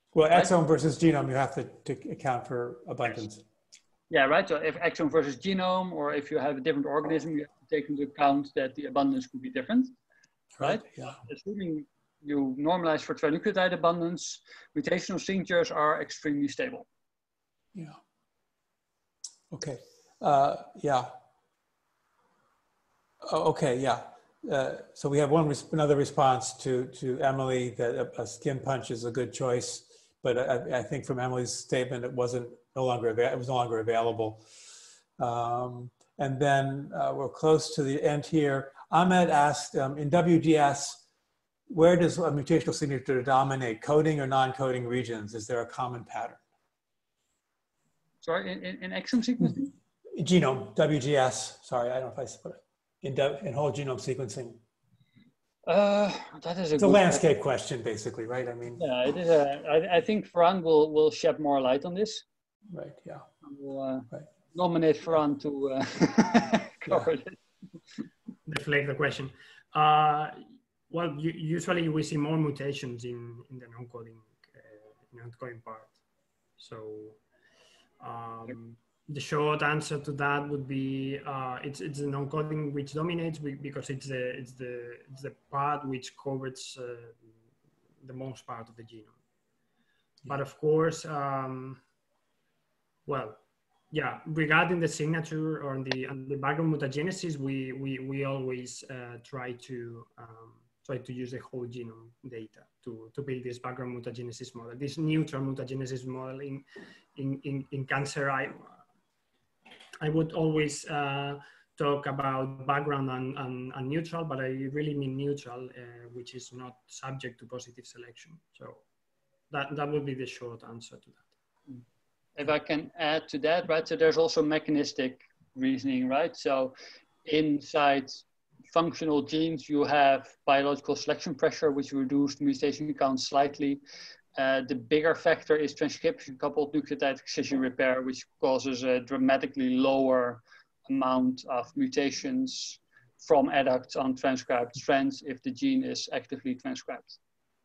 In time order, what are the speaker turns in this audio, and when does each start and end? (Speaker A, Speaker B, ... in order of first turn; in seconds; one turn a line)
Speaker A: 0.1-3.4
Speaker B: 4.1-9.9
Speaker A: 10.6-11.2
Speaker B: 10.6-16.9
Speaker A: 19.5-21.1
Speaker A: 23.2-34.4
Speaker A: 35.2-41.0
Speaker A: 41.7-46.4
Speaker B: 48.2-49.7
Speaker A: 50.1-54.6
Speaker B: 55.7-57.3
Speaker A: 56.8-58.8
Speaker B: 58.8-62.2
Speaker A: 62.7-63.3
Speaker B: 63.4-67.4
Speaker C: 68.5-76.0
Speaker C: 76.6-77.2
Speaker C: 78.0-87.3
Speaker C: 88.0-89.2
Speaker C: 90.3-91.8
Speaker C: 93.1-108.8
Speaker C: 110.0-118.8
Speaker C: 119.5-121.3
Speaker B: 122.4-126.7
Speaker B: 127.2-133.8
Speaker B: 134.4-147.2